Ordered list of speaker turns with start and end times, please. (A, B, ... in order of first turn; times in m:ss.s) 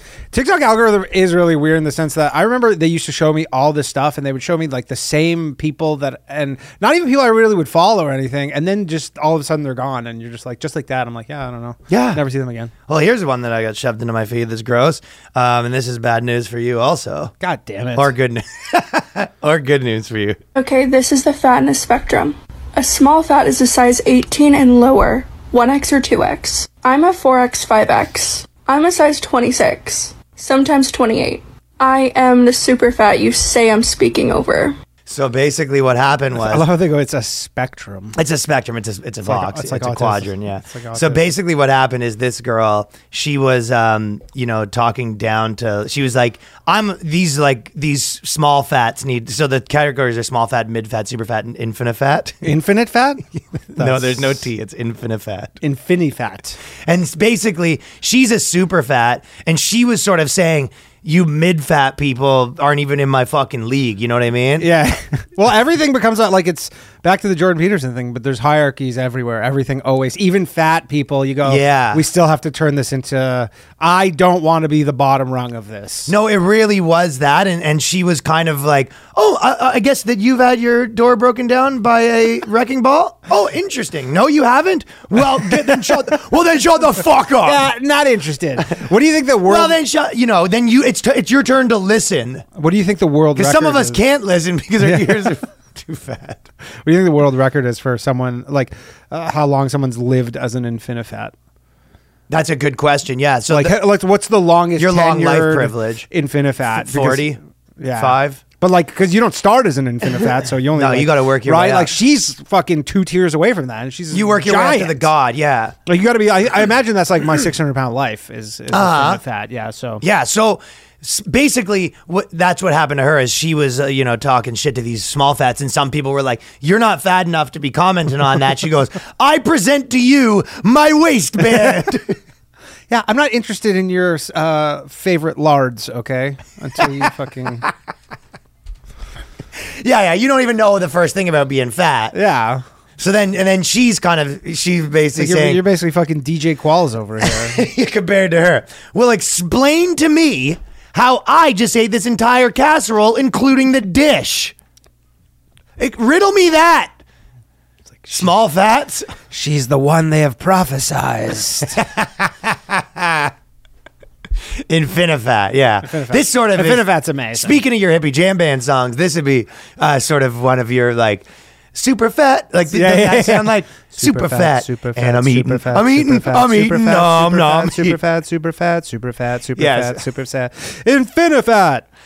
0:00.3-0:12.7 A
0:11.9-0:12.2 B
0:12.9-0:17.3 B
0:17.4-0:18.1 A
0:17.9-0:20.4 B
0:20.5-0:34.8 C
0:35.1-0:36.7 B
0:36.3-0:38.2 A
0:38.1-0:52.5 B
0:39.2-0:41.3 A
0:52.4-0:54.4 A
0:53.7-0:55.6 B
0:55.6-0:56.6 A
0:56.8-1:04.7 B
1:04.6-1:16.1 A
1:11.4-1:12.0 B
1:16.1-1:27.6 B
1:27.4-1:29.8 A
1:29.4-1:32.4 B
1:32.5-1:34.0 A
1:33.4-1:36.4 B
1:34.8-1:35.3 A
1:36.8-1:41.3 A
1:42.3-1:43.8 B
1:43.5-1:55.1 A
1:44.8-1:46.1 B
1:46.8-1:47.4 B
1:48.0-1:48.4 B
1:50.7-1:51.9 B
1:54.1-1:55.7 B
1:55.8-2:00.0 A
1:58.7-1:59.2 B
2:00.0-2:12.2 B
2:12.9-2:17.6 A
2:19.6-2:22.1 B
2:22.1-2:22.6 A
2:23.0-2:25.6 B
2:25.2-2:27.6 A
2:27.2-2:34.5 B
2:35.8-2:36.9 B
2:38.0-2:38.3 A
2:38.1-2:39.1 B
2:39.3-2:41.8 A
2:41.8-2:43.3 B
2:44.7-2:58.0 B
2:45.8-2:47.6 A
2:52.7-3:01.8 A
2:59.6-3:00.0 B